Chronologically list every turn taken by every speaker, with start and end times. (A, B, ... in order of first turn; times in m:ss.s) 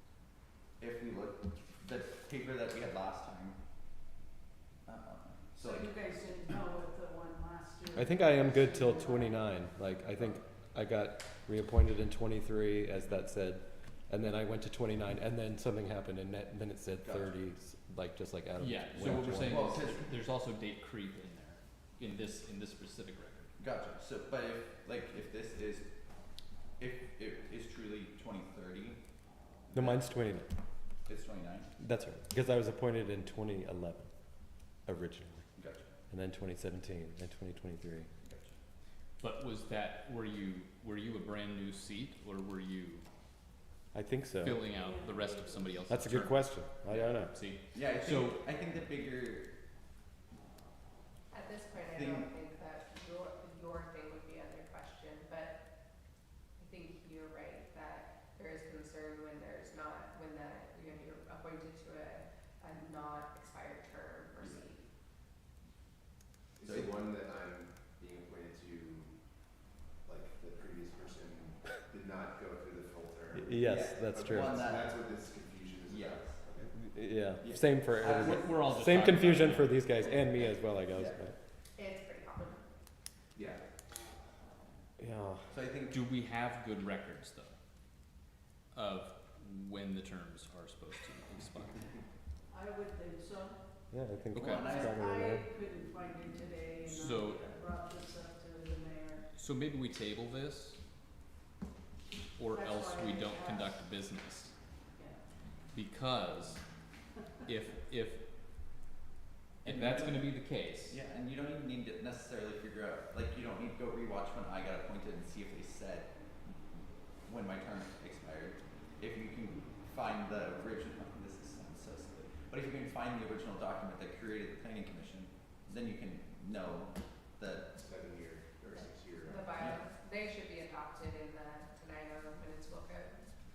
0:00.8-0:03.6 A
0:04.8-0:05.9 A
0:05.6-0:09.4 B
0:07.9-0:19.8 C
0:17.0-0:17.3 A
0:18.6-0:23.5 D
0:19.0-0:20.1 A
0:23.6-0:25.9 A
0:26.8-0:29.0 A
0:29.7-0:30.1 A
0:29.7-0:30.5 C
0:31.0-0:31.7 A
0:31.8-0:35.5 C
0:35.6-0:35.9 A
0:36.1-0:38.1 C
0:38.2-0:38.6 A
0:39.2-0:43.0 D
0:43.9-0:44.6 C
0:44.4-0:48.3 D
0:44.8-0:45.8 B
0:45.9-0:47.3 C
0:47.7-0:49.5 A
0:51.3-0:55.6 E
0:51.9-0:52.3 A
0:56.6-1:04.8 E
1:04.4-1:04.6 A
1:06.6-1:09.2 F
1:06.6-1:06.9 A
1:10.0-1:16.7 F
1:13.3-1:14.6 C
1:13.6-1:15.0 A
1:15.9-1:16.4 A
1:16.7-1:21.3 C
1:17.4-1:18.7 A
1:18.0-1:19.8 D
1:20.9-1:21.2 A
1:21.8-1:22.6 E
1:23.3-1:23.6 F
1:25.0-1:25.5 C
1:25.5-1:26.0 A
1:25.9-1:27.5 D
1:28.7-1:31.9 D
1:32.5-1:33.6 B
1:33.9-1:35.4 C
1:34.3-1:34.7 D
1:34.4-1:34.9 A
1:34.6-1:39.2 B
1:36.8-1:37.4 D
1:39.3-1:40.8 D
1:42.4-1:44.5 D
1:42.5-1:43.7 B
1:45.7-1:46.6 D
1:47.4-1:48.2 D
1:49.6-1:50.3 A
1:49.6-1:51.0 D
1:50.9-1:56.1 A
1:57.2-2:07.7 A
2:07.7-2:09.6 F
2:09.2-2:13.2 E